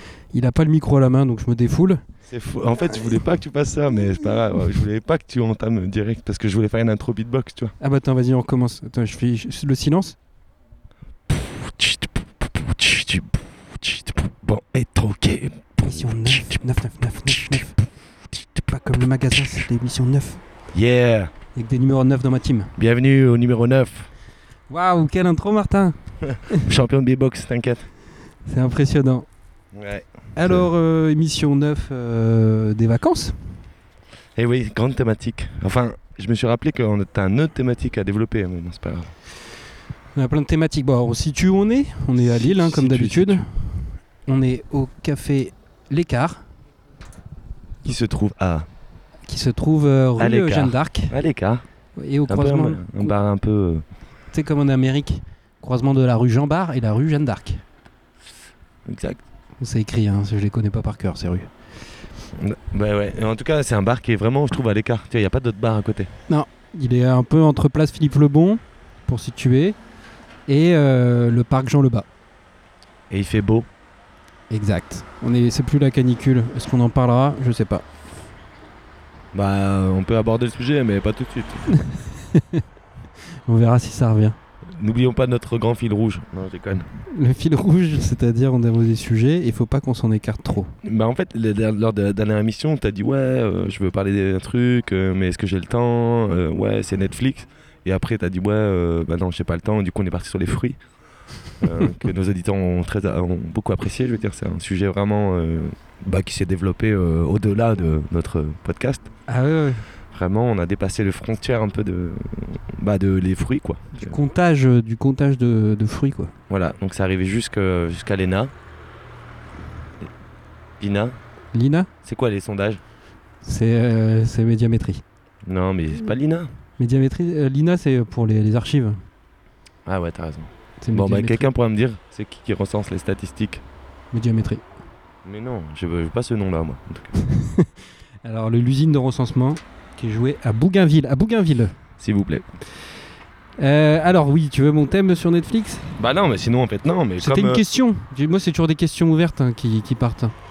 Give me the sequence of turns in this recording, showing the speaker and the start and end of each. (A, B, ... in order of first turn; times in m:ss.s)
0:00.3-0:02.0 A
0:02.2-0:07.7 B
0:07.8-0:10.2 A
0:11.3-0:16.6 B
0:15.8-0:17.8 A
0:17.2-0:17.6 B
0:18.7-0:20.4 A
0:20.7-0:21.3 B
0:21.5-0:22.7 A
0:22.8-0:24.1 B
0:24.7-0:26.7 A
0:26.2-0:27.9 B
0:28.4-0:29.3 A
0:29.7-0:30.7 B
0:30.3-0:33.6 A
0:34.4-0:39.1 B
0:40.1-0:46.4 A
0:42.2-0:43.4 B
0:47.8-0:48.7 B
0:49.3-0:51.2 A
0:50.2-0:51.6 B
0:52.0-0:53.1 A
0:52.3-0:53.8 B
0:54.3-0:57.6 A
0:58.8-0:59.2 B
0:59.6-1:01.5 A
1:02.3-1:06.1 B
1:06.3-1:09.8 A
1:10.5-1:12.1 A
1:13.1-1:13.7 B
1:14.5-1:17.8 A
1:19.3-1:21.7 B
1:21.8-1:22.6 A
1:23.4-1:24.4 A
1:24.7-1:26.9 B
1:27.0-1:30.8 A
1:30.8-1:40.8 B
1:41.6-1:49.1 B
1:49.3-1:49.8 A
1:50.1-1:54.2 B
1:53.9-1:56.3 A
1:56.5-1:58.5 B
2:00.8-2:01.2 B
2:01.5-2:01.9 A
2:02.0-2:02.8 B
2:03.4-2:05.0 A
2:05.4-2:06.5 B
2:06.8-2:09.0 A
2:09.8-2:13.6 B
2:10.8-2:11.5 A
2:14.1-2:14.6 A
2:15.2-2:17.1 B
2:17.2-2:17.7 A
2:18.2-2:21.8 A
2:22.0-2:22.4 B
2:23.6-2:25.9 A
2:26.0-2:27.6 B
2:27.2-2:30.3 A